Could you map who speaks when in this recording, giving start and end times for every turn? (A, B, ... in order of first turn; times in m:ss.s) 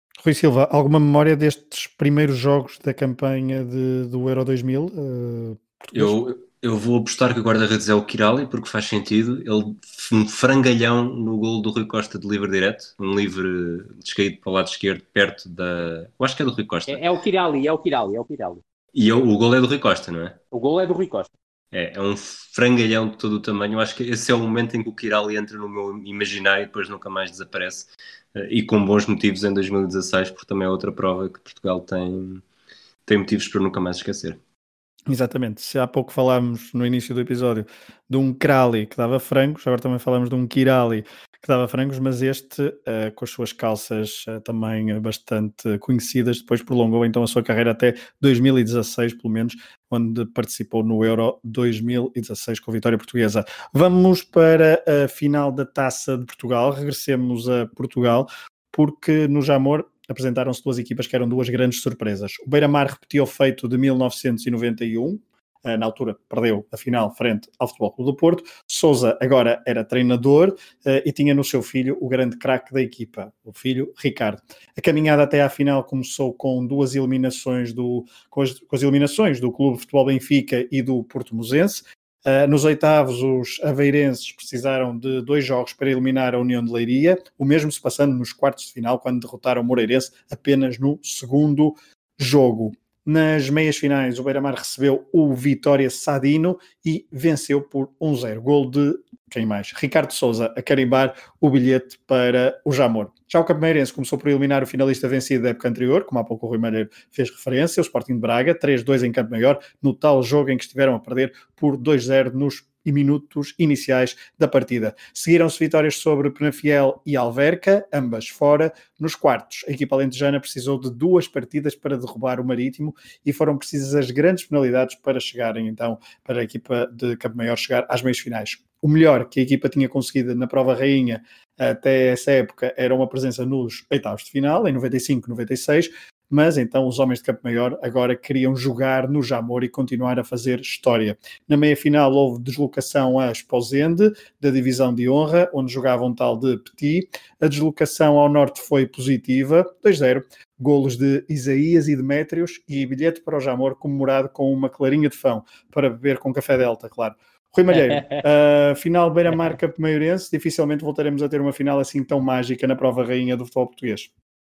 0:00.2-0:06.1 A
0:05.9-0:17.0 B
0:16.9-0:18.6 C
0:19.0-0:20.4 B
0:20.5-0:21.3 C
0:21.7-0:32.4 B
0:33.1-0:34.4 B
0:35.1-2:44.1 A
2:37.7-2:38.2 C